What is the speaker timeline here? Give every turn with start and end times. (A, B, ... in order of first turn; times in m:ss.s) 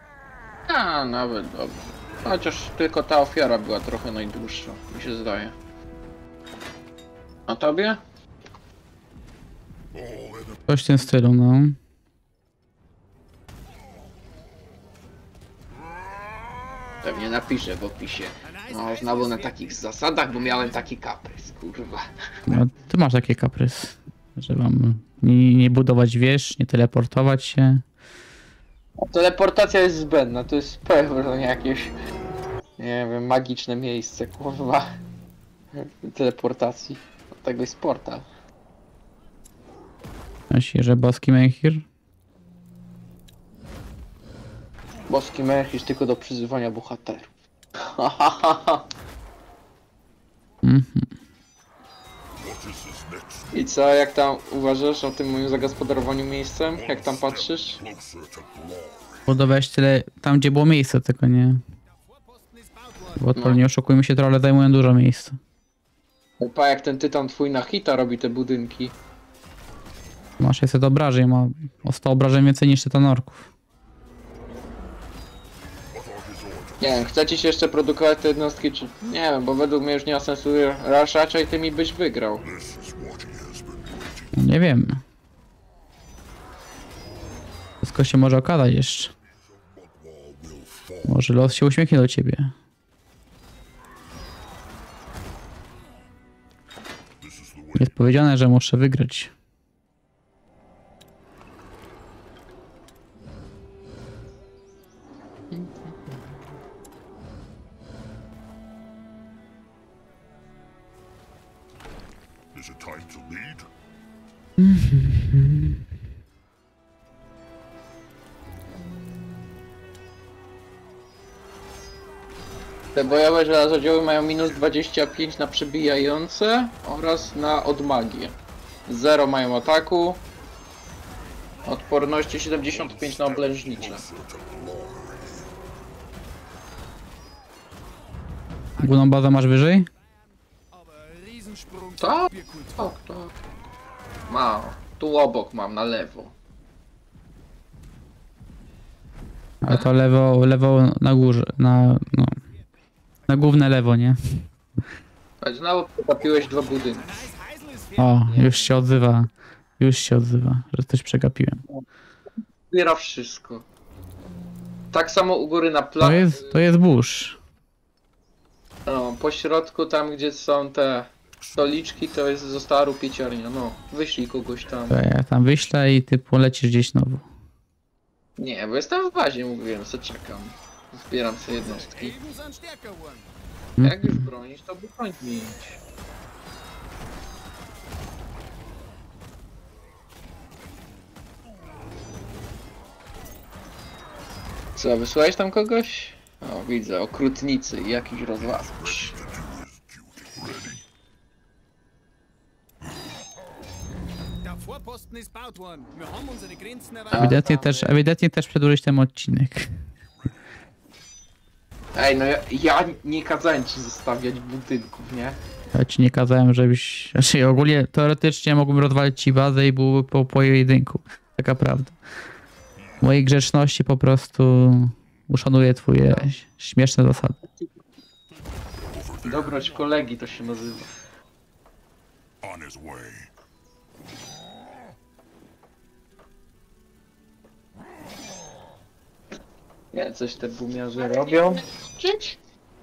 0:00.7-0:05.5 A
0:07.5-0:08.0 A
0:09.9-0:10.9 B
0:10.7-0:11.8 C
0:17.0-0:22.6 A
0:18.4-0:20.8 D
0:22.5-0:27.8 C
0:29.0-0:31.9 A
0:32.8-0:34.9 A
0:35.7-0:38.2 A
0:40.5-0:41.8 C
0:45.1-0:48.9 A
0:50.6-0:51.1 C
0:52.4-0:53.6 B
0:53.5-0:57.8 A
0:56.7-0:59.4 B
0:59.3-1:01.6 C
1:01.8-1:03.3 D
1:03.2-1:05.4 C
1:03.4-1:03.6 A
1:06.4-1:08.9 A
1:10.4-1:13.5 C
1:15.9-1:17.1 B
1:16.8-1:22.4 A
1:22.4-1:24.5 B
1:24.3-1:25.0 C
1:27.8-1:29.1 C
1:29.4-1:31.2 B
1:31.0-1:32.5 C
1:37.2-1:38.2 B
1:37.8-1:39.3 C
1:45.5-1:45.9 A
1:52.5-1:53.7 B
1:54.6-1:55.8 C
2:02.9-2:08.3 A
2:08.9-2:10.2 A
2:11.6-2:14.0 A
2:12.6-2:15.5 B
2:18.8-2:19.1 D
2:18.8-2:19.9 C
2:19.9-2:22.9 D
2:22.0-2:23.4 A
2:24.3-2:26.3 A
2:29.6-2:32.4 C
2:29.6-2:29.9 A
2:33.3-2:34.5 C
2:35.4-2:37.3 A
2:36.9-2:38.3 D
2:38.0-2:41.6 C
2:38.3-2:38.7 A
2:42.7-2:43.6 A
2:44.9-2:46.6 A
2:46.0-2:47.4 C
2:48.8-2:54.9 A
2:54.9-2:57.2 C
2:58.4-3:02.1 A
3:01.5-3:03.3 D
3:03.8-3:04.2 C
3:03.8-3:05.8 A
3:14.8-3:19.2 A
3:18.4-3:20.8 B
3:24.4-3:27.4 D
3:27.1-3:28.0 A
3:27.1-3:29.7 C
3:31.9-3:35.4 A
3:35.7-3:41.9 C
3:43.0-3:47.4 C
3:48.6-3:49.7 B
3:49.2-3:50.9 A
3:52.4-3:53.3 B
3:59.9-4:02.4 A